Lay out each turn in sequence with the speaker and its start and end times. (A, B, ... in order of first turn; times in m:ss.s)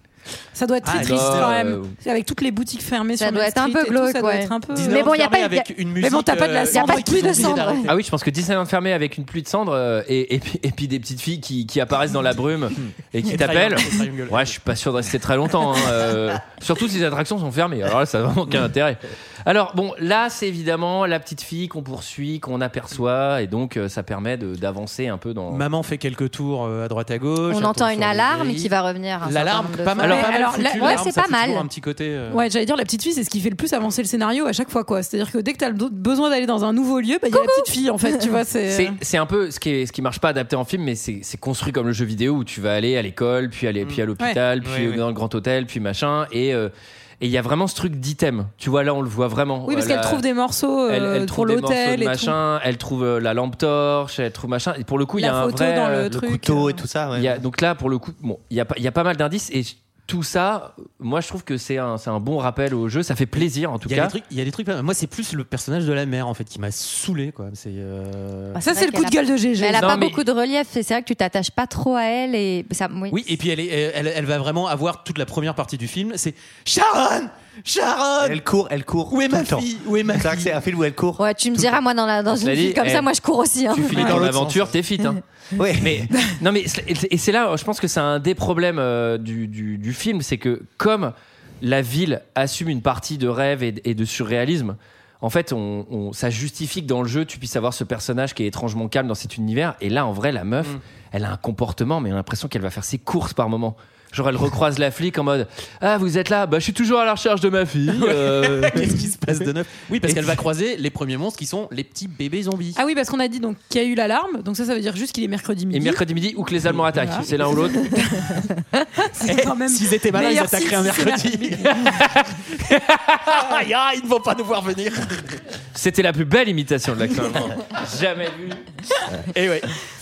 0:00.6-0:05.1 A
0:00.8-0:01.6 B
0:00.9-0:02.0 C
0:03.2-0:05.7 D
0:04.7-0:08.0 B
0:06.0-0:07.7 A
0:06.7-0:07.9 D
0:07.9-0:25.6 C
0:12.8-0:14.6 B
0:25.5-0:28.7 B
0:27.5-0:31.7 D
0:29.2-0:32.5 B
0:30.0-0:31.0 A
0:32.3-0:39.0 A
0:37.3-0:38.2 D
0:38.7-0:50.2 C
0:44.6-0:45.0 E
0:49.6-0:52.4 A
0:50.9-0:56.1 C
0:55.2-0:56.8 A
0:56.1-0:57.4 E
0:57.2-1:04.2 C
1:03.8-1:08.6 B
1:08.6-1:13.4 D
1:08.6-1:10.1 A
1:09.8-1:10.2 C
1:13.1-1:18.4 B
1:18.2-1:21.8 E
1:19.1-1:20.5 B
1:21.2-1:24.2 D
1:22.4-1:23.1 C
1:23.7-1:25.2 C
1:23.8-1:24.7 B
1:25.6-1:26.1 E
1:25.8-1:49.0 C
1:47.9-1:52.8 B
1:50.1-1:50.4 C
1:52.8-1:56.0 A
1:55.7-1:57.9 C
1:57.0-2:01.8 A
1:59.2-2:01.7 B
2:01.7-2:03.4 C
2:03.3-2:05.4 B
2:05.7-2:08.7 C
2:09.2-2:09.7 B